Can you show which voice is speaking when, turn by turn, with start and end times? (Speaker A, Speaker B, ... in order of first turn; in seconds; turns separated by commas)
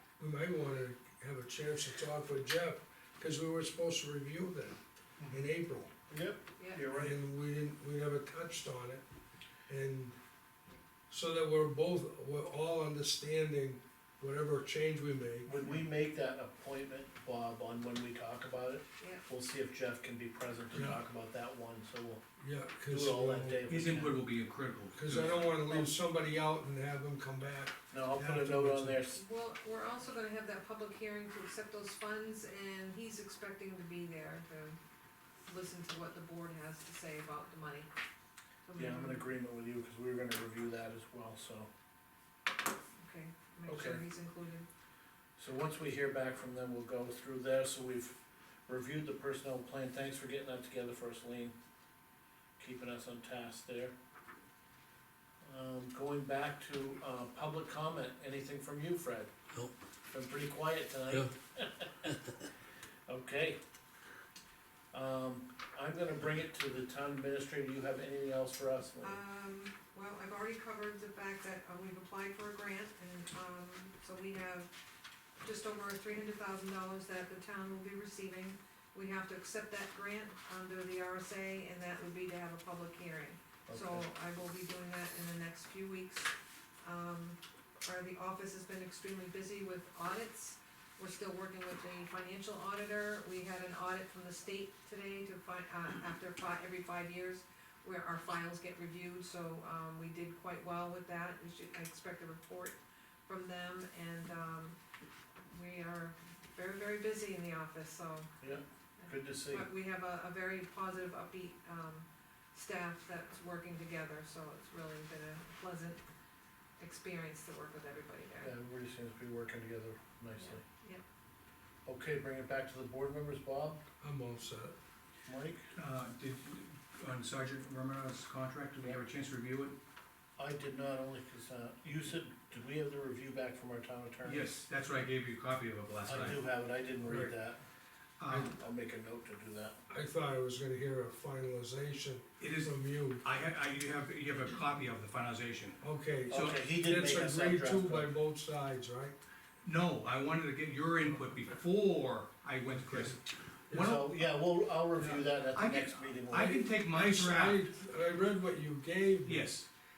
Speaker A: 0.2-4.8, Speaker A: 5.3-5.9, Speaker B: 6.1-7.2, Speaker C: 6.6-6.8, Speaker A: 6.9-9.0, Speaker A: 9.7-10.2, Speaker A: 11.1-15.5, Speaker B: 15.4-22.2, Speaker A: 20.7-21.0, Speaker A: 22.4-23.6, Speaker B: 22.9-24.2, Speaker D: 23.7-25.5, Speaker A: 24.9-29.0, Speaker B: 25.4-25.9, Speaker B: 27.9-29.2, Speaker C: 29.1-34.8, Speaker C: 35.5-37.9, Speaker C: 38.6-39.3, Speaker B: 38.8-41.7, Speaker C: 43.0-44.7, Speaker B: 43.6-44.0, Speaker B: 45.4-51.5, Speaker B: 52.6-53.9, Speaker B: 55.4-62.3, Speaker B: 63.1-63.6, Speaker B: 64.9-69.2, Speaker C: 69.0-74.7, Speaker C: 75.4-104.8, Speaker B: 83.7-84.1, Speaker C: 105.5-116.0, Speaker B: 108.4-109.7, Speaker C: 116.8-118.5, Speaker B: 118.4-120.6, Speaker C: 120.4-121.0, Speaker B: 121.8-123.8, Speaker A: 124.0-124.8, Speaker B: 125.2-125.7, Speaker D: 125.7-129.8, Speaker B: 130.4-134.5, Speaker D: 134.2-136.4, Speaker B: 136.0-137.6, Speaker A: 137.0-137.3, Speaker D: 138.2-138.5, Speaker A: 138.3-138.5, Speaker B: 138.6-139.8, Speaker A: 139.9-143.2, Speaker D: 142.4-145.8, Speaker A: 145.8-149.1, Speaker B: 146.3-148.1, Speaker D: 146.3-146.6, Speaker D: 149.6-154.1, Speaker A: 152.8-153.2, Speaker B: 153.7-156.7, Speaker D: 155.0-157.6, Speaker A: 156.9-159.5, Speaker D: 159.2-159.7